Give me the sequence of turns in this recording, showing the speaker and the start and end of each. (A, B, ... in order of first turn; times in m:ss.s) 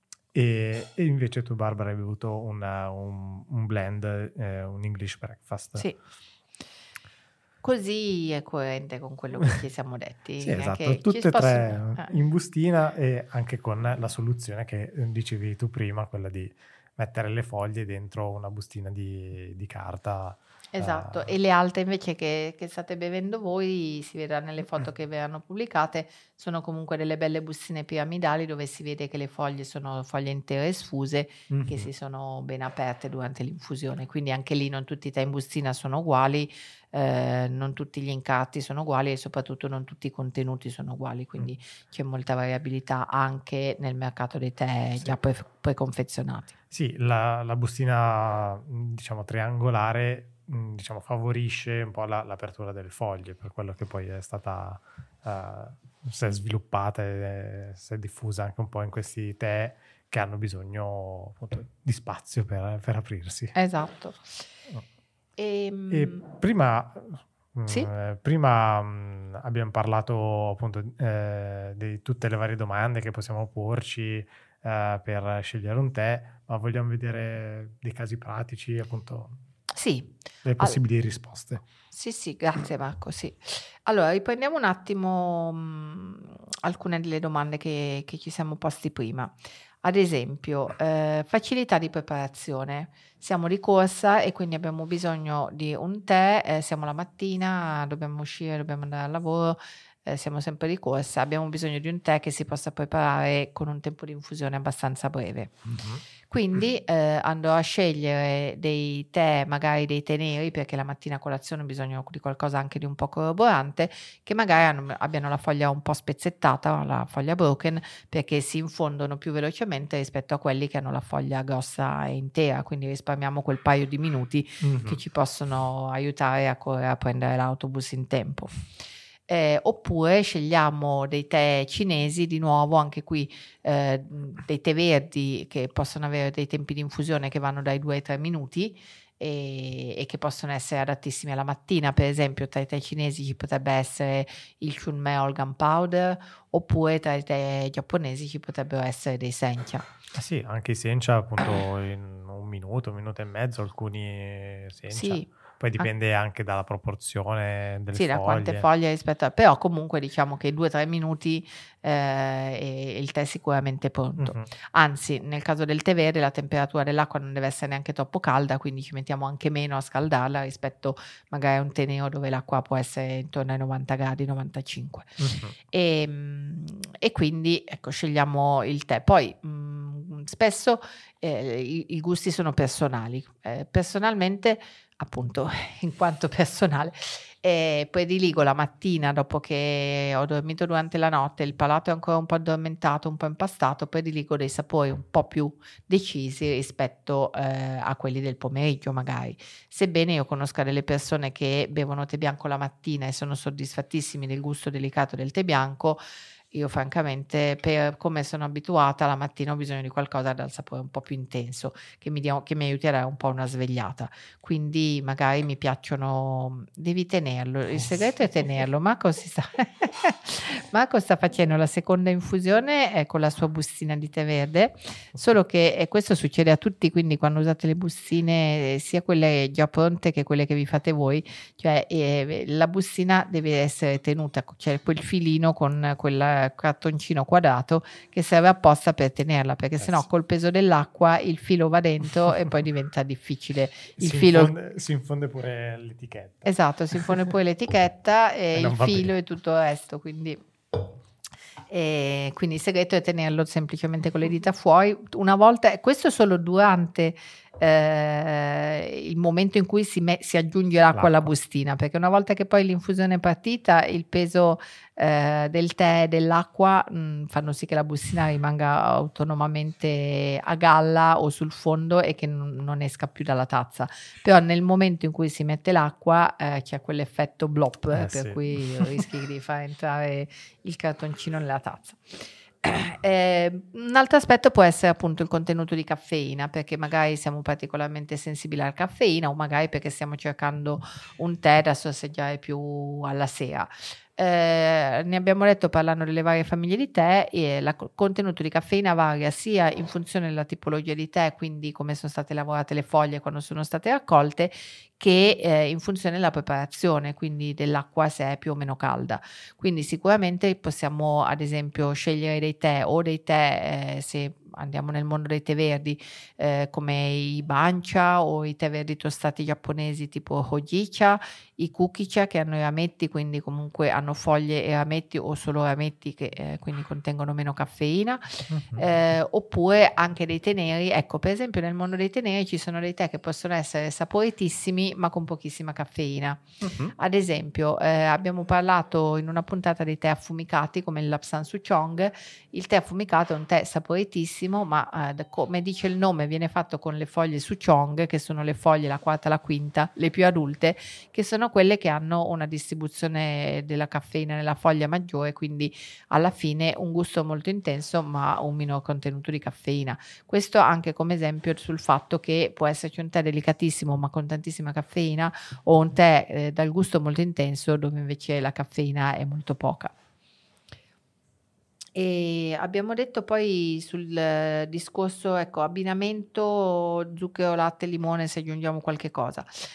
0:00.3-0:05.9 A
0:07.6-0:12.1 B
0:10.4-0:21.3 A
0:20.7-0:46.5 B
0:31.5-0:31.9 A
0:46.7-1:03.6 A
1:03.6-1:04.3 B
1:05.4-1:06.2 B
1:05.9-1:19.4 A
1:19.7-1:20.8 B
1:20.4-1:21.6 A
1:21.9-1:45.7 B
1:45.7-1:46.0 A
1:46.3-2:08.6 B
2:04.6-2:05.0 A
2:09.3-2:29.8 B
2:30.1-2:38.7 A
2:34.9-2:35.9 B
2:37.9-3:26.0 B
2:44.2-2:44.5 A
2:55.2-2:55.6 A
3:26.5-4:04.5 B
4:04.0-4:07.1 A
4:06.4-4:10.8 B
4:08.5-4:09.1 A
4:11.7-5:36.4 B
4:20.9-4:21.3 A
4:37.9-4:39.0 A
5:28.5-5:28.8 A
5:36.6-5:36.9 A
5:37.0-6:09.9 B
6:12.0-6:19.5 B